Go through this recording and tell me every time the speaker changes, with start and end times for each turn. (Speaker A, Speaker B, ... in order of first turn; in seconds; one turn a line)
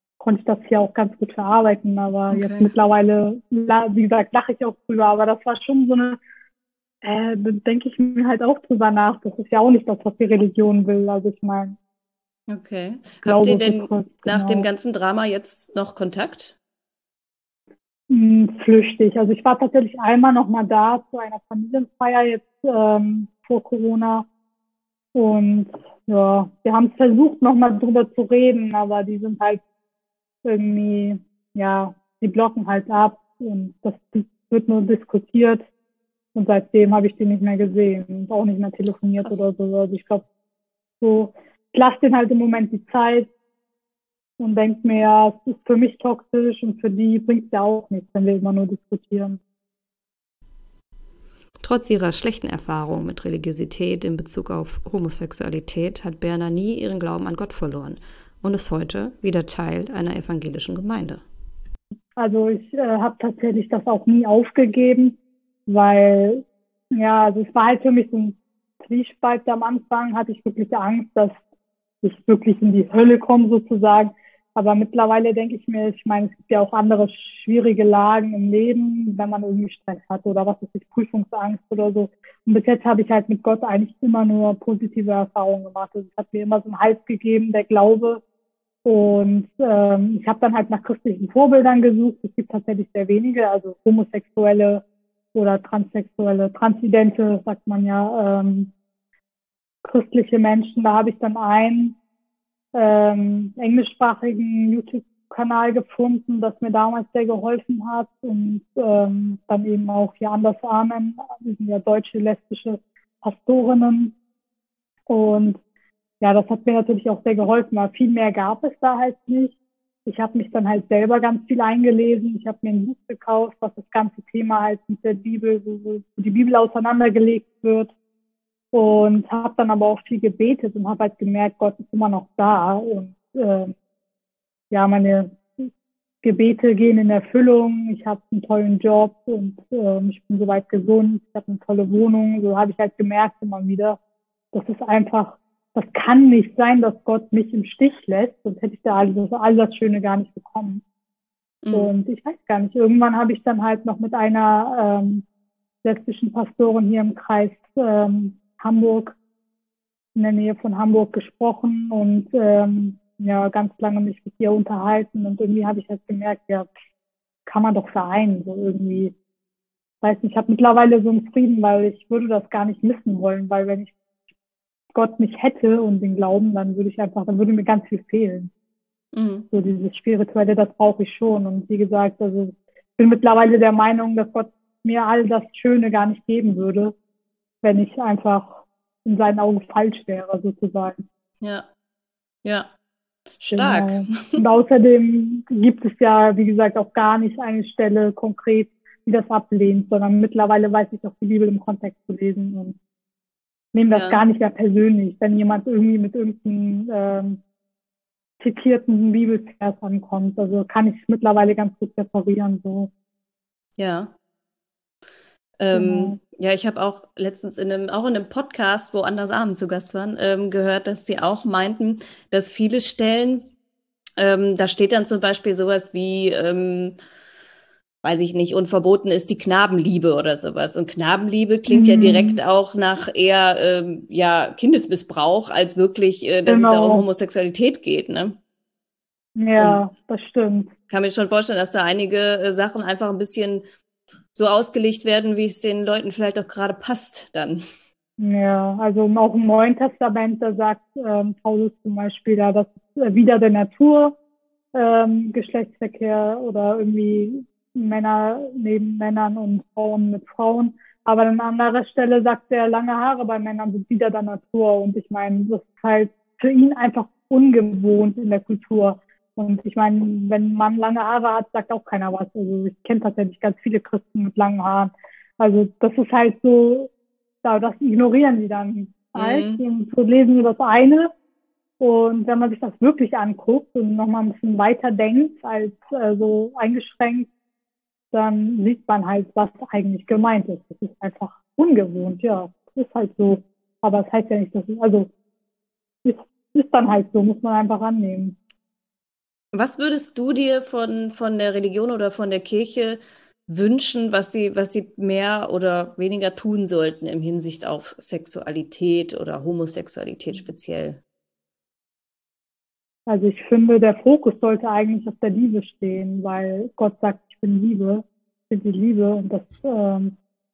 Speaker A: 0.2-6.2
Speaker B: 2.4-2.6
Speaker A: 7.0-11.8
Speaker B: 12.5-16.6
Speaker A: 13.2-14.7
Speaker A: 18.1-24.2
Speaker A: 25.1-29.6
Speaker A: 30.4-35.6
Speaker A: 36.3-40.2
Speaker A: 41.0-43.3
Speaker A: 44.4-49.4
Speaker B: 51.6-61.2
Speaker A: 62.2-71.4
Speaker A: 72.0-88.2
Speaker A: 88.8-94.8
Speaker A: 95.3-98.7
Speaker A: 99.8-102.0
Speaker A: 102.7-114.1
Speaker A: 115.1-115.6
Speaker A: 116.2-127.9
Speaker A: 128.7-133.7
Speaker A: 134.7-135.7
Speaker A: 136.2-144.0
Speaker A: 144.5-150.8
Speaker A: 151.7-155.2
Speaker A: 155.8-159.2
Speaker A: 160.1-166.7
Speaker A: 167.5-169.1
Speaker A: 170.0-173.9
Speaker A: 174.9-178.5
Speaker B: 179.1-179.4
Speaker A: 179.5-186.9
Speaker A: 187.6-191.0
Speaker B: 191.4-191.7
Speaker B: 192.4-192.7
Speaker B: 193.4-194.4
Speaker A: 193.5-202.8
Speaker A: 203.7-207.4
Speaker B: 203.9-204.2
Speaker A: 208.4-212.9
Speaker B: 213.8-214.1
Speaker B: 215.6-223.5
Speaker A: 215.7-216.2
Speaker B: 224.2-226.9
Speaker B: 228.0-238.4
Speaker A: 231.7-232.4
Speaker A: 236.4-237.1
Speaker A: 239.4-240.7
Speaker B: 240.9-243.6
Speaker B: 244.3-247.6
Speaker A: 248.2-254.2
Speaker A: 254.7-276.9
Speaker A: 277.4-281.1
Speaker B: 279.2-279.6
Speaker A: 281.8-287.3
Speaker A: 288.1-295.1
Speaker A: 296.0-298.4
Speaker B: 299.5-311.0
Speaker A: 313.1-320.1